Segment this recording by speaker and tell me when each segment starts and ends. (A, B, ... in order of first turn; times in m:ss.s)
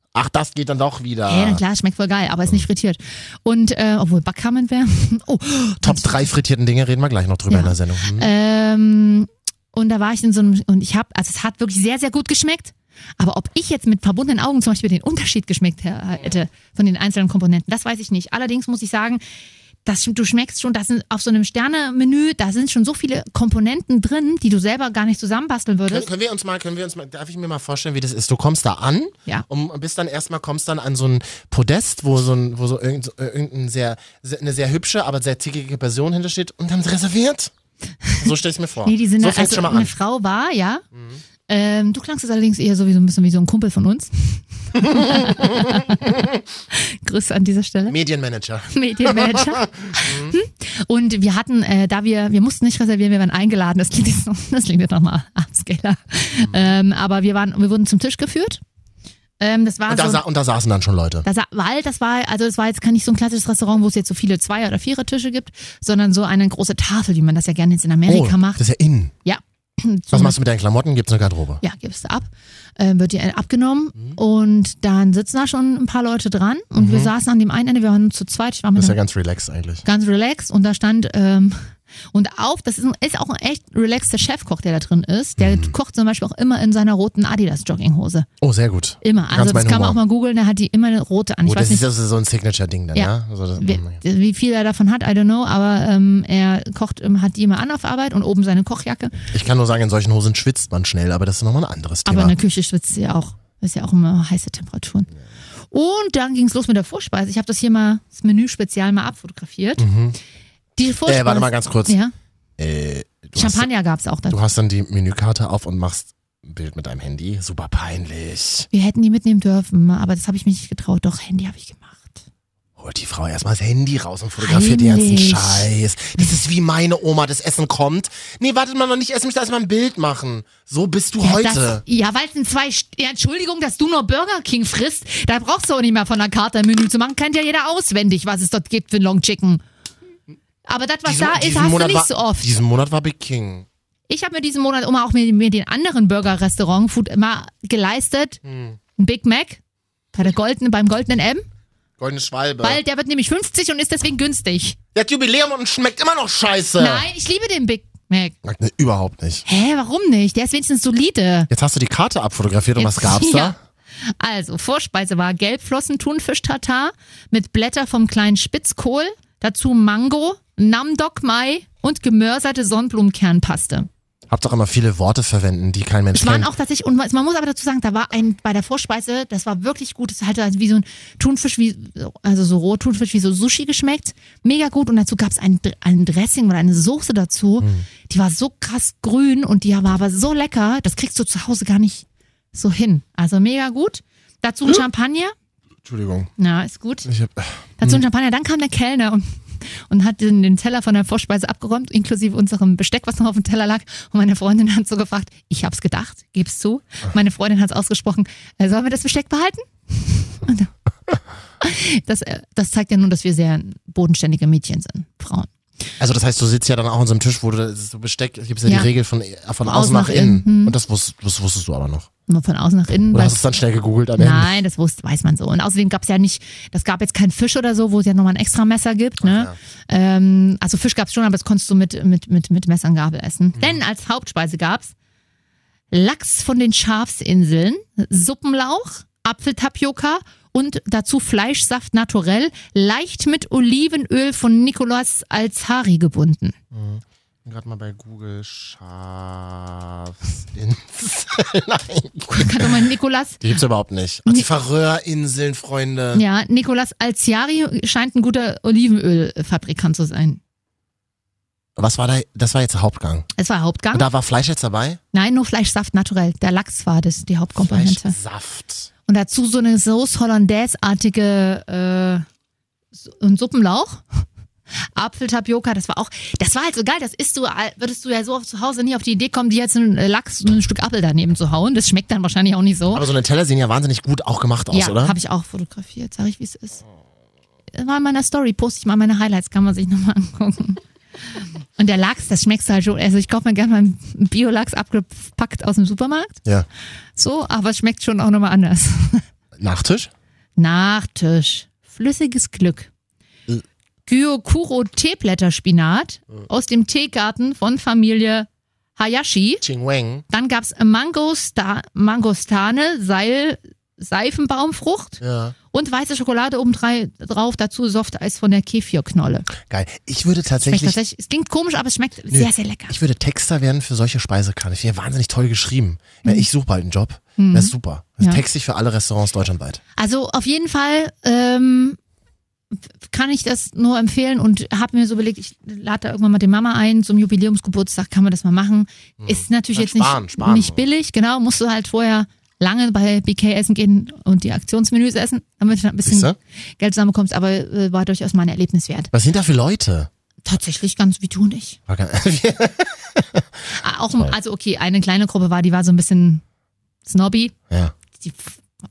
0:00.1-0:01.6 A
0:01.3-0:06.3 B
0:05.8-0:08.3 A
0:07.5-0:19.2 B
0:19.8-0:26.1 B
0:25.9-0:37.5 A
0:38.2-0:39.9 A
0:38.8-0:40.8 B
0:40.9-0:41.2 A
0:41.5-0:46.2 B
0:44.8-0:46.4 A
0:46.7-0:48.0 B
0:47.9-0:50.4 A
0:48.7-0:58.6 B
0:56.4-0:56.8 A
0:59.4-1:00.2 B
0:59.9-1:01.3 A
1:01.2-1:08.6 B
1:08.1-1:09.1 A
1:09.2-1:10.4 B
1:10.1-1:11.6 A
1:11.6-1:19.0 B
1:16.8-1:17.1 A
1:18.8-1:19.8 A
1:19.8-1:28.3 B
1:25.4-1:25.7 A
1:28.4-1:30.0 A
1:29.0-1:31.9 B
1:31.4-1:34.0 A
1:33.0-1:39.1 B
1:39.3-1:42.4 A
1:42.1-1:45.1 B
1:45.7-1:49.9 B
1:49.8-1:50.2 A
1:50.8-1:52.1 B
1:51.1-1:52.0 A
1:52.6-1:53.7 A
1:53.4-1:54.4 B
1:54.3-1:58.7 A
1:58.7-2:02.2 B
2:02.8-2:11.8 A
2:04.4-2:05.7 B
2:11.2-2:19.6 B
2:20.7-2:22.6 B
2:21.0-2:23.7 A
2:24.1-2:28.4 B
2:28.4-2:28.8 A
2:29.0-2:29.6 B
2:30.1-2:31.5 B
2:32.0-2:32.8 A
2:32.6-2:34.8 B
2:34.9-2:37.1 A
2:36.8-2:38.4 B
2:38.4-2:39.4 A
2:39.4-2:41.5 B
2:41.5-2:43.6 A
2:42.8-2:43.6 B
2:44.2-2:53.9 B
2:54.3-2:56.5 A
2:56.1-3:15.3 B
3:07.6-3:07.9 A
3:15.8-3:16.3 A
3:16.4-3:17.1 B
3:17.0-3:18.0 A
3:17.8-3:30.7 B
3:31.6-3:35.5 B
3:36.0-3:42.1 A
3:39.6-3:40.7 B
3:42.3-3:43.4 B
3:43.1-3:44.6 A
3:44.2-3:54.9 B
3:49.2-3:49.6 A
3:53.6-3:53.8 A
3:55.9-4:06.6 B
4:06.7-4:12.8 A
4:12.3-4:13.6 B
4:13.4-4:16.2 A
4:16.1-4:20.4 B
4:21.8-4:23.3 A
4:23.4-4:24.1 B
4:23.9-4:25.0 A
4:25.1-4:28.2 B
4:27.6-4:28.9 A
4:29.1-4:32.3 B
4:32.9-4:34.2 B
4:35.0-4:43.0 B
4:42.9-4:45.2 A
4:44.7-4:46.8 B
4:47.7-4:50.8 B
4:51.8-4:56.4 B
4:57.2-4:59.2 B
4:59.6-5:00.1 A
5:00.6-5:02.9 B
5:04.1-5:09.6 B
5:09.6-5:10.2 A
5:10.3-5:15.2 B
5:15.2-5:15.6 A
5:15.7-5:19.5 B
5:19.6-5:21.0 A
5:20.6-5:23.0 B
5:22.3-5:29.8 A
5:27.4-5:28.4 B
5:30.0-5:32.0 B
5:32.7-5:49.1 B
5:39.2-5:40.8 A
5:46.0-5:46.4 A
5:49.1-5:50.1 A
5:50.5-5:51.8 B
5:51.9-5:53.6 A
5:53.8-5:56.4 B
5:57.1-5:57.5 B
5:57.7-5:58.0 A
5:58.2-5:58.6 B